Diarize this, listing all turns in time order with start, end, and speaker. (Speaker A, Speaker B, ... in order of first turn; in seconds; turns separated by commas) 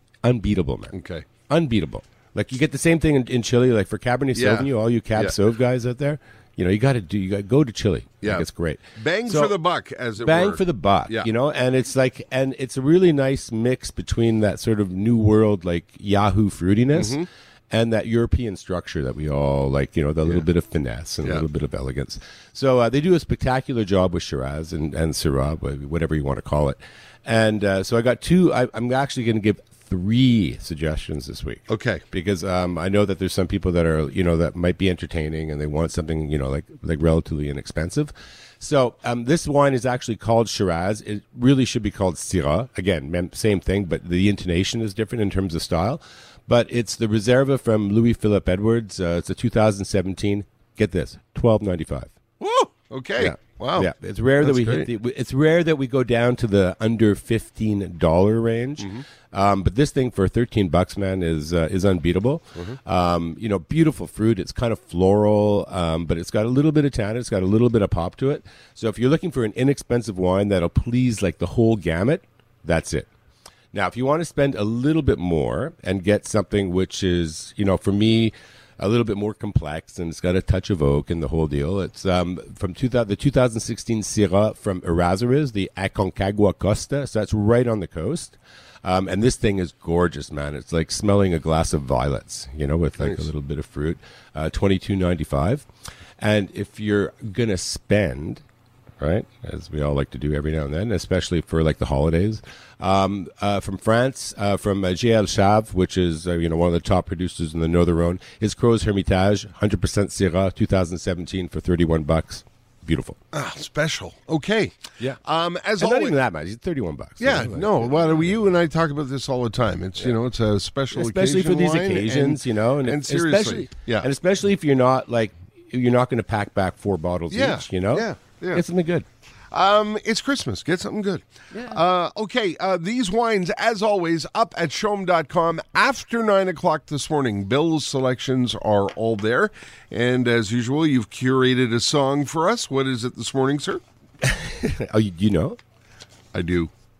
Speaker A: 0.2-0.9, Speaker B: 0.9-1.3, Speaker A: 1.5-9.6, Speaker B: 4.3-5.4, Speaker B: 8.2-11.3, Speaker A: 10.2-52.1, Speaker B: 16.9-17.3, Speaker B: 31.7-32.0, Speaker B: 52.4-54.9, Speaker A: 53.2-73.1, Speaker B: 58.8-59.0, Speaker A: 73.7-95.7, Speaker B: 93.0-93.3, Speaker A: 96.2-98.4, Speaker A: 99.0-113.2, Speaker B: 113.3-116.2, Speaker A: 115.8-118.3, Speaker B: 117.2-124.1, Speaker A: 120.9-129.1, Speaker B: 127.3-128.6, Speaker B: 129.5-143.8, Speaker A: 144.2-145.6, Speaker B: 146.3-146.7